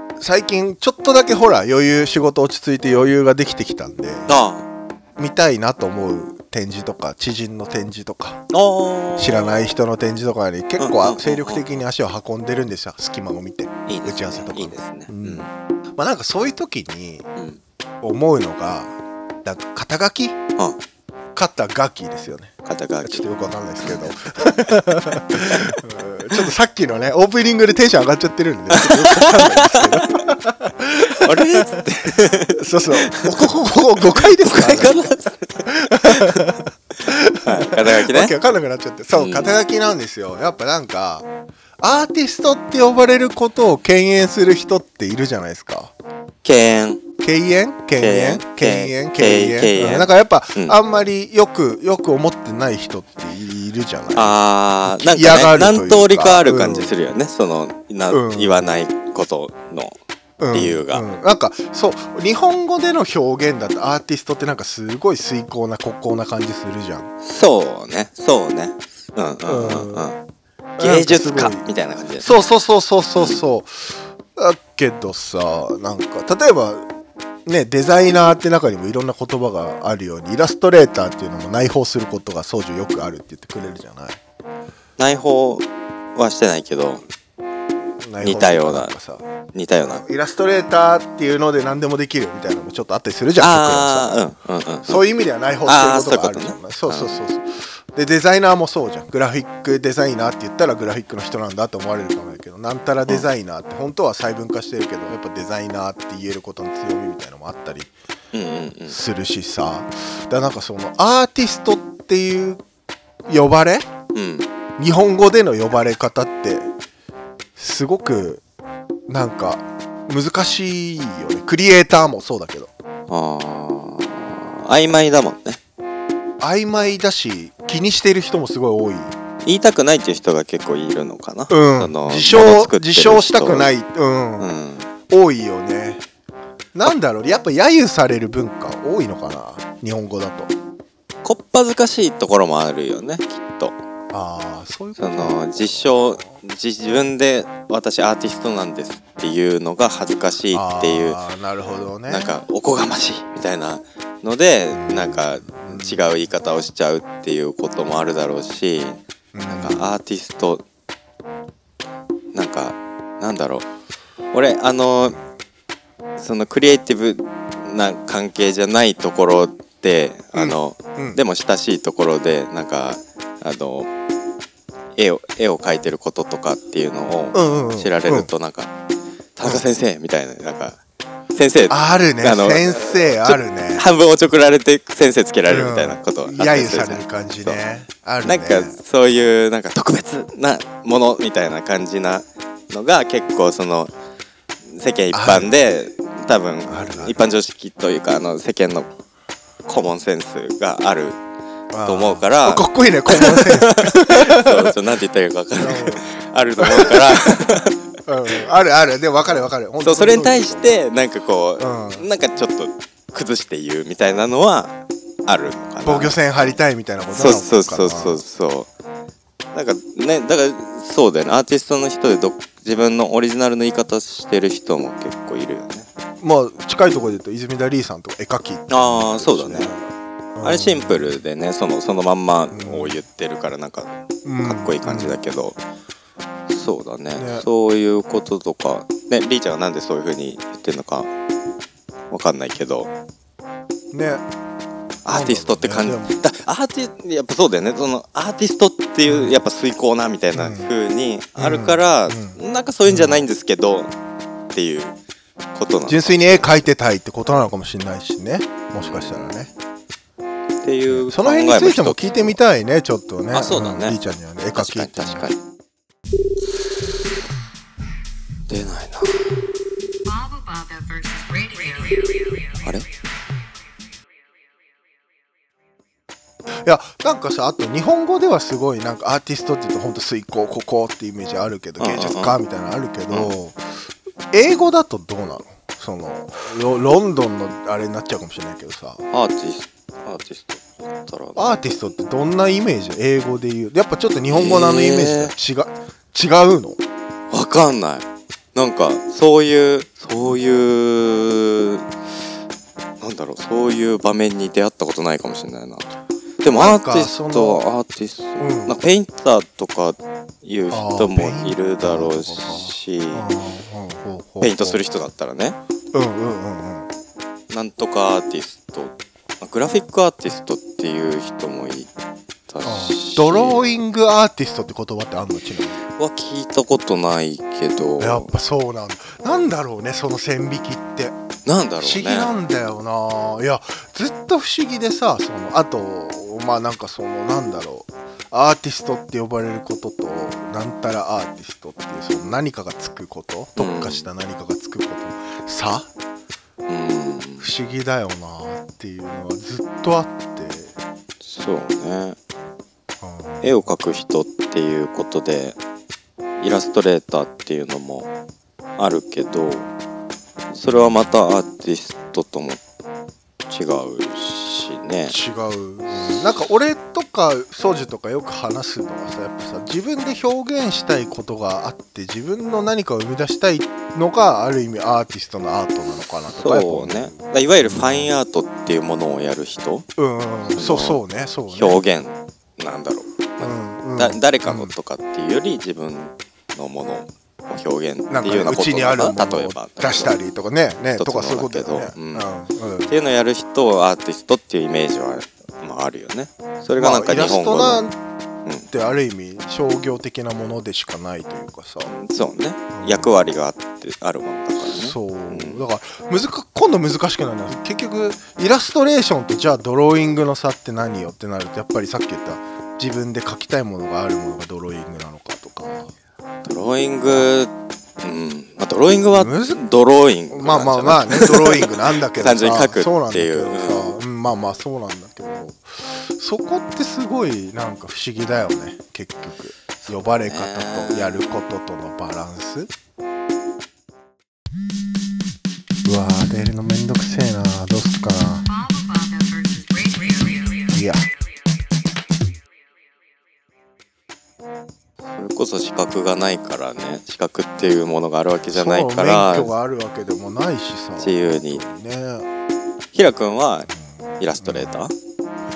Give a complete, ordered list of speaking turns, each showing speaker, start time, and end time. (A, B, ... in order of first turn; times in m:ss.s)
0:00.2-0:04.3 A
0:04.3-0:04.6 B
0:05.2-0:08.4 A
0:08.5-0:09.8 B
0:09.2-0:17.3 A
0:10.8-0:11.6 B
0:13.9-0:15.5 B
0:18.0-0:20.4 A
0:21.3-0:22.5 A
0:22.6-0:23.3 B
0:23.0-0:35.1 A
0:25.4-0:25.8 B
0:28.7-0:30.1 B
0:31.1-0:36.6 B
0:35.6-0:41.3 A
0:37.4-0:38.3 B
0:39.1-0:39.6 B
0:41.8-0:45.9 A
0:46.4-0:47.0 B
0:47.2-0:54.3 A
0:48.0-0:50.8 B
0:54.1-1:00.0 B
0:54.9-0:56.9 A
0:58.1-0:58.8 A
1:00.4-1:07.1 A
1:00.5-1:01.0 B
1:07.2-1:10.2 B
1:09.4-1:10.1 A
1:10.8-1:11.6 A
1:10.8-1:12.3 B
1:12.2-1:16.8 A
1:17.4-1:24.2 A
1:25.0-1:27.0 B
1:28.0-1:29.2 A
1:28.2-1:28.9 B
1:29.5-1:30.1 B
1:29.9-1:34.1 A
1:33.4-1:35.0 B
1:34.8-1:47.9 A
1:35.6-1:37.2 B
1:48.3-1:49.0 B
1:48.9-1:52.6 A
1:53.3-1:53.9 A
1:54.1-1:54.5 B
1:54.8-1:56.7 A
1:57.6-1:58.4 A
1:59.1-2:02.7 A
2:03.1-2:05.6 B
2:06.4-2:09.2 A
2:09.4-2:13.7 B
2:11.5-2:14.5 A
2:14.4-2:14.9 B
2:15.1-2:16.0 A
2:16.7-2:20.5 A
2:21.2-2:23.7 B
2:24.1-2:26.3 A
2:25.0-2:31.2 B
2:30.5-2:32.3 A
2:32.1-2:40.6 B
2:34.7-2:36.1 A
2:39.3-2:39.9 A
2:42.3-2:43.6 B
2:44.3-2:45.2 B
2:46.2-2:53.9 B
2:50.3-2:51.2 A
2:55.0-2:58.7 B
2:57.3-2:58.3 A
2:59.4-3:00.8 B
3:01.3-3:07.6 B
3:01.7-3:03.8 A
3:05.5-3:08.8 A
3:08.2-3:13.9 B
3:14.7-3:18.9 B
3:15.1-3:15.5 A
3:16.7-3:17.1 A
3:19.6-3:21.2 B
3:21.7-3:24.7 A
3:21.8-3:27.8 B
3:25.6-3:26.0 A
3:26.6-3:30.6 A
3:29.8-3:34.7 B
3:31.6-3:32.1 A
3:35.2-3:36.2 B
3:35.8-3:38.2 A
3:37.1-3:38.7 B
3:39.5-3:45.9 B
3:46.2-3:51.2 A
3:48.7-3:49.7 B
3:50.4-3:55.6 B
3:52.5-3:53.0 A
3:54.2-3:55.2 A
3:56.5-4:01.1 B
3:57.2-3:57.4 A
4:02.1-4:02.9 B
4:03.9-4:04.2 A
4:05.0-4:13.9 B
4:05.1-4:06.1 A
4:09.1-4:09.4 A
4:10.3-4:10.7 A
4:11.4-4:13.2 A
4:14.5-4:14.9 B
4:15.5-4:16.6 B
4:15.9-4:19.5 A
4:18.8-4:19.3 B
4:20.6-4:22.4 B
4:20.9-4:25.3 A
4:23.3-4:24.0 B
4:24.5-4:25.4 B
4:28.5-4:29.4 B
4:30.0-4:32.7 C
4:36.6-4:43.6 A
4:41.8-4:42.4 B
4:44.3-4:49.0 A
4:49.1-4:51.7 B
4:51.4-4:56.8 A
4:54.3-4:55.3 B
4:57.3-5:01.9 B
5:03.0-5:05.9 B
5:06.4-5:13.3 B
5:06.5-5:07.6 A
5:08.4-5:08.7 A
5:10.7-5:14.8 A
5:14.4-5:15.6 B
5:15.9-5:16.9 A
5:17.5-5:21.9 B
5:22.5-5:23.7 B
5:22.6-5:25.8 A
5:25.8-5:28.3 B
5:28.0-5:31.2 A
5:31.4-5:32.3 B
5:31.8-5:45.9 A
5:43.6-5:44.1 B
5:46.7-5:47.5 B
5:47.4-5:50.7 A
5:51.2-5:52.2 B
5:53.0-5:53.5 A
5:53.4-5:55.6 B
5:56.4-5:58.1 B
5:58.8-5:59.7 B
6:00.5-6:02.6 B
6:00.6-6:01.1 A
6:03.5-6:05.2 B
6:05.1-6:18.1 A
6:16.3-6:19.9 B
6:20.0-6:21.8 A
6:20.5-6:30.2 B
6:23.4-6:24.7 A
6:28.1-6:32.9 A
6:31.0-6:32.3 B
6:32.9-6:37.8 B
6:36.8-6:37.9 A
6:38.7-6:41.9 A
6:41.8-6:45.6 B
6:42.7-6:43.1 A
6:44.6-6:55.9 A
6:56.4-7:03.9 B
6:59.1-6:59.6 A
7:00.3-7:12.7 A
7:09.8-7:11.4 B
7:15.8-7:18.4 A
7:18.4-7:20.8 C
7:20.7-7:21.0 A
7:25.1-7:29.5 B
7:28.5-7:32.3 A
7:31.0-7:31.6 B
7:32.9-7:34.9 B
7:34.4-7:34.8 A